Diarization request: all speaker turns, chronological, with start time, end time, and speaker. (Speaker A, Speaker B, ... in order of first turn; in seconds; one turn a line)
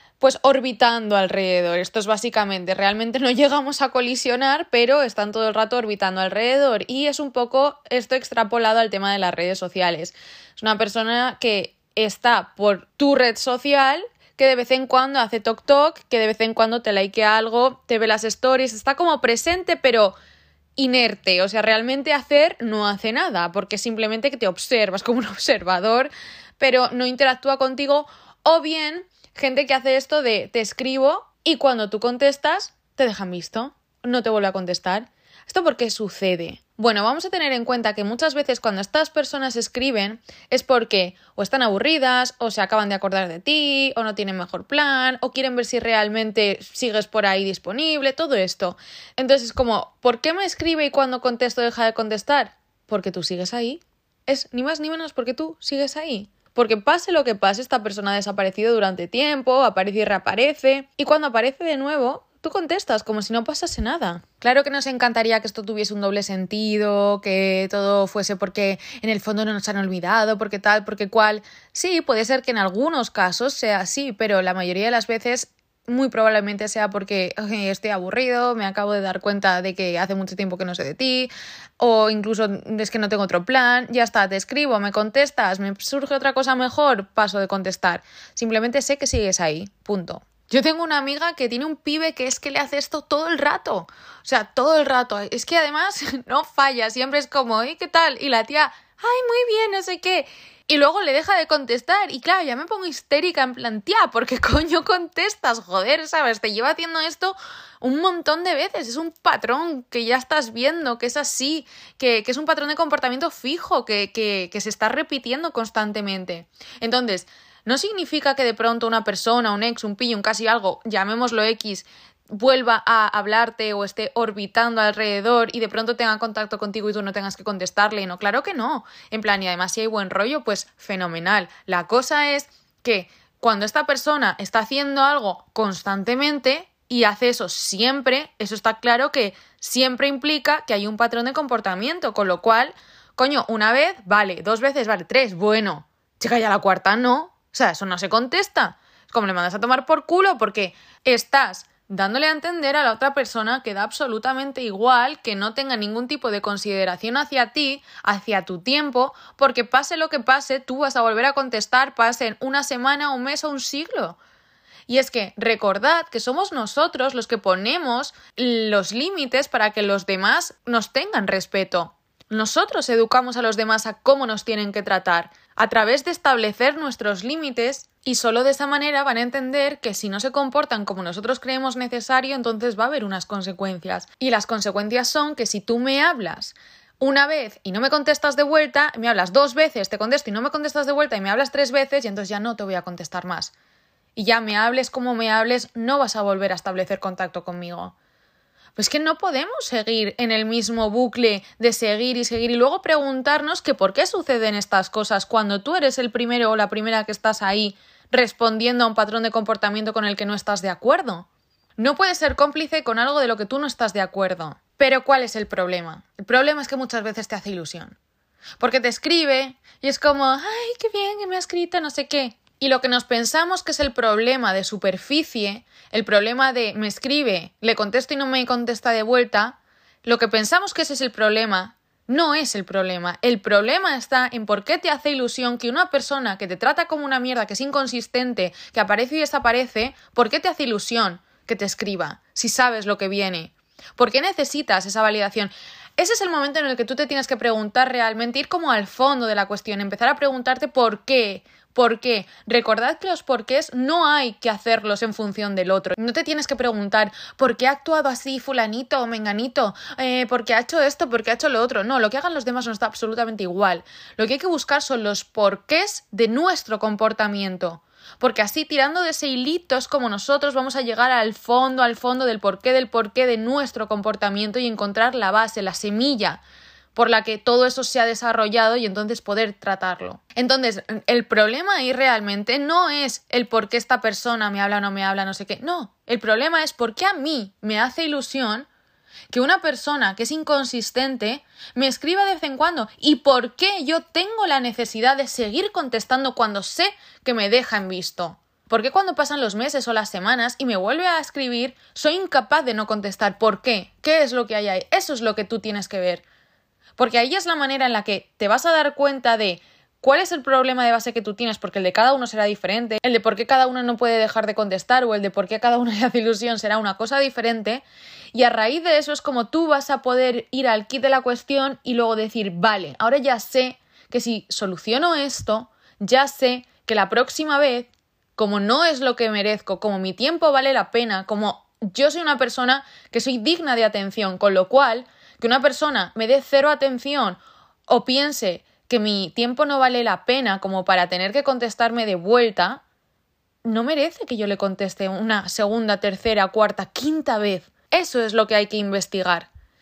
Speaker A: 0.2-20.2
Speaker A: 20.8-164.2
Speaker A: 164.9-193.5
Speaker A: 194.2-197.9
Speaker A: 198.8-211.3
Speaker A: 211.8-218.0
Speaker A: 218.6-276.4
Speaker A: 276.9-288.7
Speaker A: 289.3-306.2
Speaker A: 307.0-342.8
Speaker A: 343.6-349.5